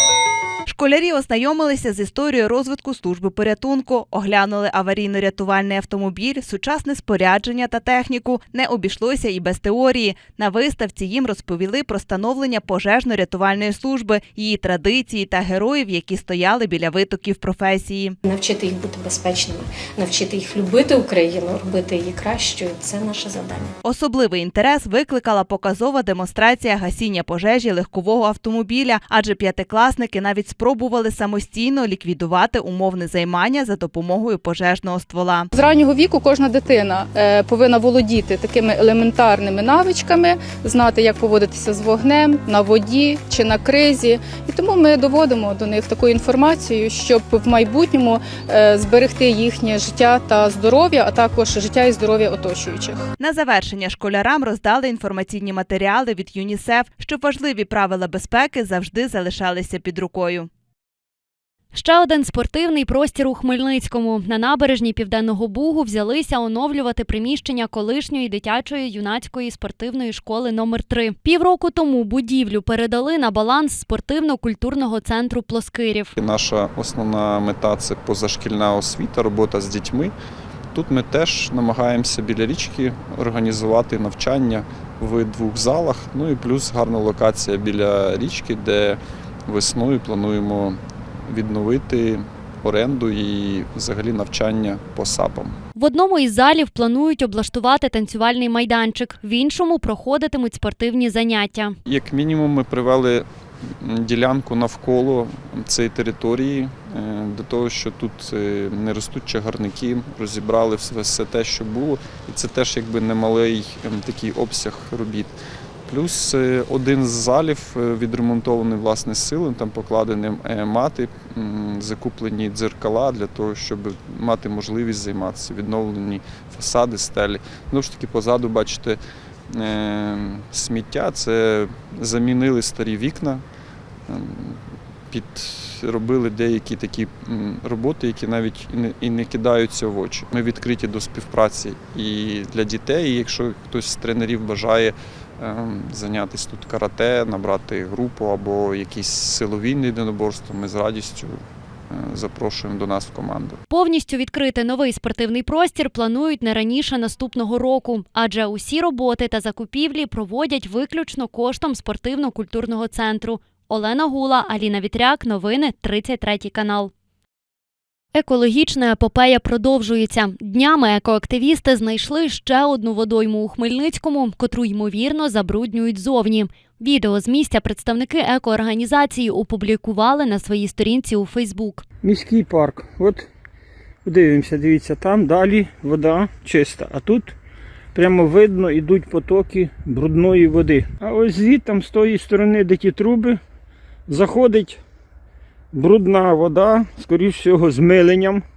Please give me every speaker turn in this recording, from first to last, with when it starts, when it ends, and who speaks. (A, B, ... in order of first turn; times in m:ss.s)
0:00.7-0:18.2 A
0:18.3-0:23.7 B
0:23.8-0:35.5 A
0:35.5-0:53.0 C
0:53.2-1:00.5 A
1:01.7-1:16.2 D
1:16.2-1:20.1 E
1:20.7-1:35.6 E
1:35.8-1:41.8 D
1:41.9-1:43.3 E
1:43.8-1:55.3 E
1:55.9-2:13.4 E
2:14.1-2:31.4 E
2:31.9-2:33.6 E
2:33.7-2:46.9 D
2:48.1-3:01.8 D
3:02.0-3:03.2 F
3:04.0-3:07.3 F
3:08.0-3:13.4 F
3:14.1-3:14.8 F
3:15.7-3:18.4 F